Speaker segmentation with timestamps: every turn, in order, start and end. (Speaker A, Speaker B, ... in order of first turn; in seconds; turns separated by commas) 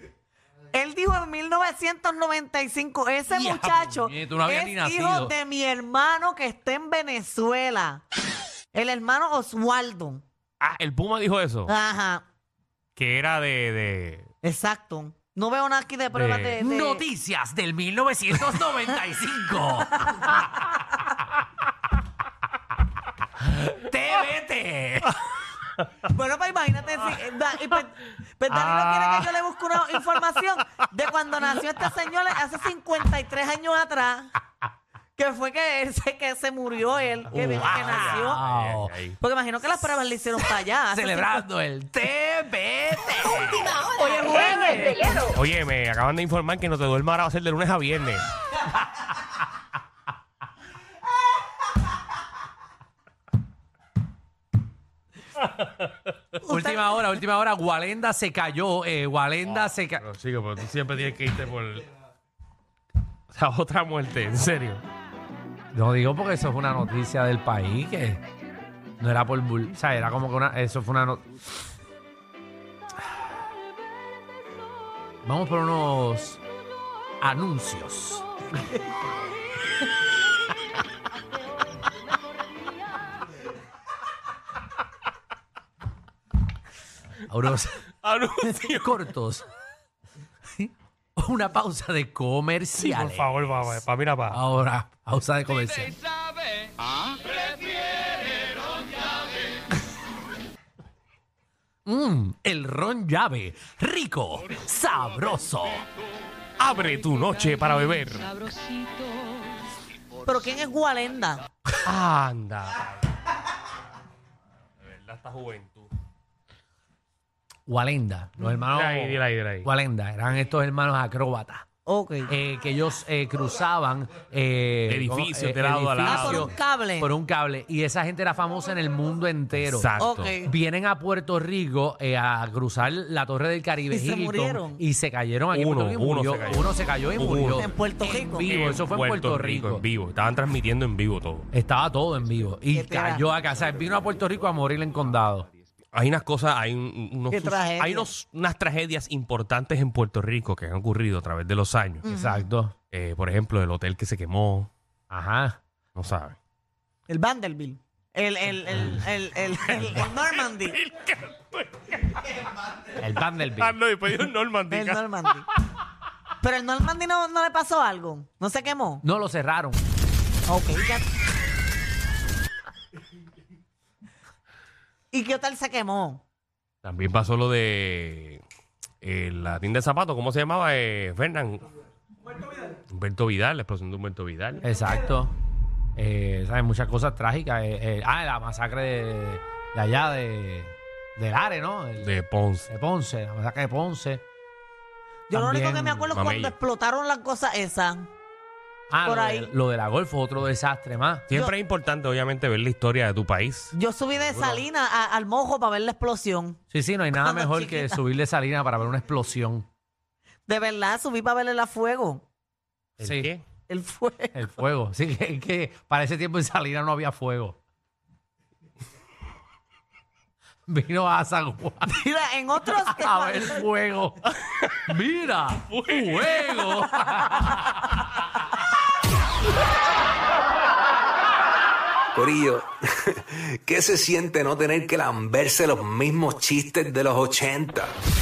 Speaker A: 0.7-8.0, Speaker B: 3.3-5.3, Speaker A: 8.7-10.2, Speaker C: 10.6-11.7, Speaker A: 11.7-12.2, Speaker C: 13.0-14.3, Speaker A: 14.4-17.1, Speaker C: 16.1-16.6, Speaker B: 16.6-20.4, Speaker A: 18.6-19.0, Speaker A: 19.8-20.7, Speaker B: 23.4-25.2, Speaker A: 26.1-34.3, Speaker C: 28.6-29.3, Speaker A: 35.2-38.4, Speaker B: 37.3-38.9, Speaker C: 37.3-39.2, Speaker A: 39.2-41.4, Speaker B: 40.9-43.8, Speaker A: 43.7-45.3, Speaker C: 45.3-48.2, Speaker A: 56.4-57.1, Speaker B: 56.5-60.0, Speaker C: 59.5-61.9, Speaker C: 63.3-64.8, Speaker B: 65.7-68.2, Speaker B: 69.0-71.2, Speaker B: 75.2-76.4, Speaker B: 77.2-78.2, Speaker B: 87.3-87.8, Speaker C: 88.0-89.0, Speaker B: 88.5-89.5, Speaker B: 91.2-93.3, Speaker C: 92.8-94.4, Speaker B: 94.3-96.0, Speaker B: 101.9-105.9, Speaker C: 106.6-108.3, Speaker A: 110.2-111.4, Speaker C: 111.8-113.2, Speaker C: 114.8-115.9, Speaker B: 117.7-121.6, Speaker C: 118.7-119.7, Speaker A: 121.9-122.3, Speaker B: 122.3-129.9, Speaker C: 124.9-126.5, Speaker A: 126.0-127.1, Speaker C: 129.6-130.3, Speaker A: 130.0-130.5, Speaker B: 130.4-139.8, Speaker A: 133.9-134.8, Speaker C: 135.5-137.7, Speaker A: 137.6-138.5, Speaker C: 138.4-141.5, Speaker B: 141.5-145.5, Speaker A: 142.7-143.3, Speaker C: 145.9-152.0, Speaker A: 147.3-148.1, Speaker A: 152.0-152.5, Speaker B: 152.1-152.7, Speaker C: 152.9-154.7, Speaker B: 155.1-155.6, Speaker C: 156.0-156.4, Speaker A: 157.1-160.8, Speaker C: 160.3-162.4, Speaker B: 163.0-163.8, Speaker C: 163.6-165.1, Speaker A: 164.7-165.4, Speaker A: 166.4-169.0, Speaker B: 169.0-169.8, Speaker A: 170.5-171.1, Speaker A: 175.1-176.2, Speaker C: 176.8-178.4, Speaker C: 179.0-181.7, Speaker C: 182.9-184.7, Speaker B: 184.6-185.3, Speaker B: 186.0-192.1, Speaker C: 192.0-192.7, Speaker B: 192.7-194.2, Speaker A: 195.3-198.1, Speaker B: 195.3-196.1, Speaker C: 196.1-196.5, Speaker B: 198.9-201.3, Speaker A: 199.0-199.5, Speaker C: 201.3-204.6, Speaker A: 203.7-206.6, Speaker B: 206.7-209.7, Speaker A: 207.2-208.0, Speaker A: 210.5-212.2, Speaker C: 213.0-213.4, Speaker B: 213.0-213.3, Speaker A: 213.7-214.5, Speaker B: 214.3-217.6, Speaker B: 220.7-221.9, Speaker A: 221.9-223.7, Speaker B: 222.8-224.2, Speaker B: 224.9-227.7, Speaker C: 225.7-226.7, Speaker D: 232.2-237.9